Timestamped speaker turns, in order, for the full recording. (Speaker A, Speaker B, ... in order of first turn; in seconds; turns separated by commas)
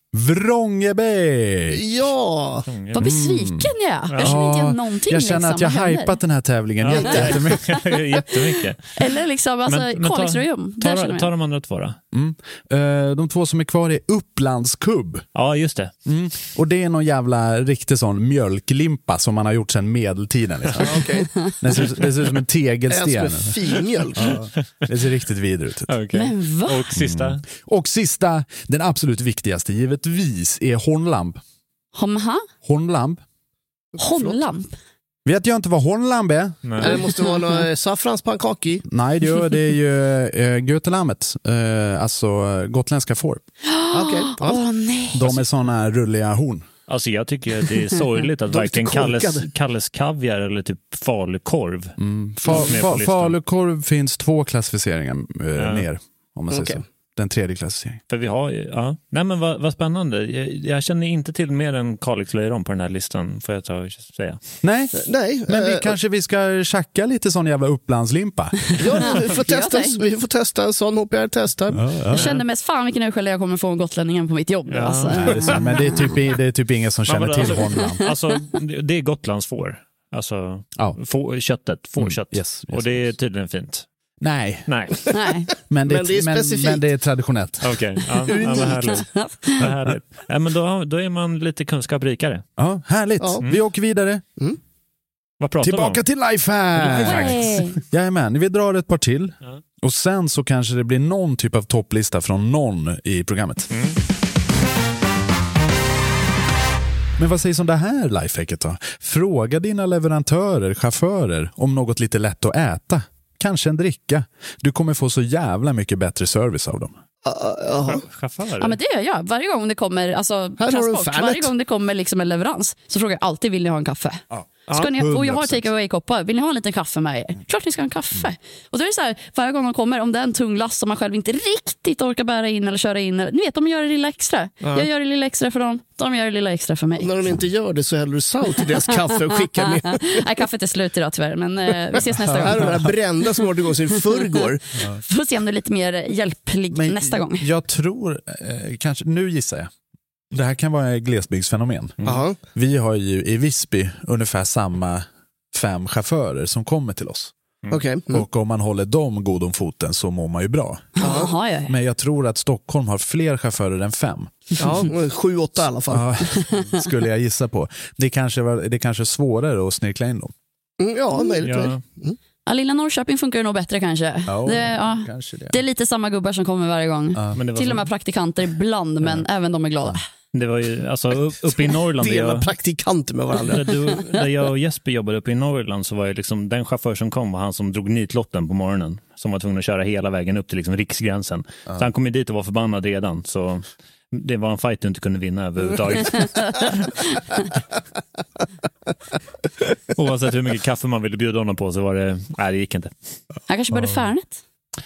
Speaker A: 0.1-1.9, Speaker B: 1.7-2.7, Speaker C: 2.7-3.1, Speaker D: 2.9-6.2, Speaker A: 3.0-8.0, Speaker C: 4.1-4.4, Speaker C: 6.8-8.9, Speaker D: 8.9-11.3, Speaker C: 9.7-12.0, Speaker A: 12.1-15.2, Speaker C: 15.3-15.9, Speaker A: 16.1-21.0, Speaker B: 20.8-21.3, Speaker A: 21.6-25.9, Speaker B: 22.9-24.4, Speaker C: 25.9-27.4, Speaker D: 26.1-26.9, Speaker A: 27.0-31.4, Speaker D: 31.9-32.5, Speaker A: 32.6-33.2, Speaker B: 34.0-34.4, Speaker D: 34.0-34.7, Speaker A: 35.2-36.6, Speaker C: 36.6-37.0, Speaker B: 36.8-38.8, Speaker A: 38.9-43.4, Speaker D: 43.6-45.2, Speaker B: 43.9-44.6, Speaker A: 45.1-46.7, Speaker C: 46.9-51.9, Speaker B: 48.5-49.5, Speaker A: 52.0-58.0, Speaker C: 52.5-53.4, Speaker C: 55.6-55.9, Speaker B: 56.5-56.8, Speaker C: 58.1-64.4, Speaker A: 64.6-68.8, Speaker B: 65.0-65.9, Speaker B: 68.8-71.8, Speaker D: 69.2-70.0, Speaker A: 71.7-72.2, Speaker C: 72.1-72.4, Speaker D: 72.1-75.7, Speaker C: 74.7-75.7, Speaker A: 75.1-78.1, Speaker C: 77.1-83.8, Speaker A: 82.0-83.1, Speaker A: 84.2-84.7, Speaker C: 84.7-84.9, Speaker D: 85.1-85.5, Speaker A: 85.7-87.8, Speaker B: 85.9-86.8, Speaker C: 87.6-92.4, Speaker B: 88.3-88.9, Speaker D: 89.1-89.6, Speaker A: 92.6-94.2, Speaker C: 95.4-96.0, Speaker A: 95.6-103.7, Speaker D: 96.9-97.8, Speaker C: 103.7-104.0, Speaker A: 107.2-116.9, Speaker B: 117.2-118.0, Speaker C: 117.8-118.8, Speaker D: 118.6-137.1, Speaker B: 120.6-121.5, Speaker A: 124.3-125.7, Speaker B: 134.6-134.9, Speaker B: 137.0-140.2, Speaker D: 139.9-142.8, Speaker A: 142.3-142.7, Speaker B: 142.3-144.6, Speaker D: 144.9-147.5, Speaker A: 146.7-149.7, Speaker A: 150.3-152.0, Speaker B: 152.0-152.4, Speaker A: 152.5-157.3, Speaker B: 157.7-158.2, Speaker A: 158.1-161.0, Speaker D: 161.0-161.7, Speaker B: 161.0-161.3, Speaker A: 161.7-164.6, Speaker B: 164.6-166.1, Speaker A: 165.9-170.3, Speaker B: 170.8-172.2, Speaker C: 171.4-171.8, Speaker D: 172.4-180.0, Speaker A: 174.3-175.6, Speaker A: 177.1-177.4, Speaker C: 177.3-177.9, Speaker C: 180.3-182.5, Speaker B: 182.0-183.8, Speaker C: 183.5-196.8, Speaker C: 199.9-202.9, Speaker D: 203.5-204.4, Speaker A: 203.7-204.0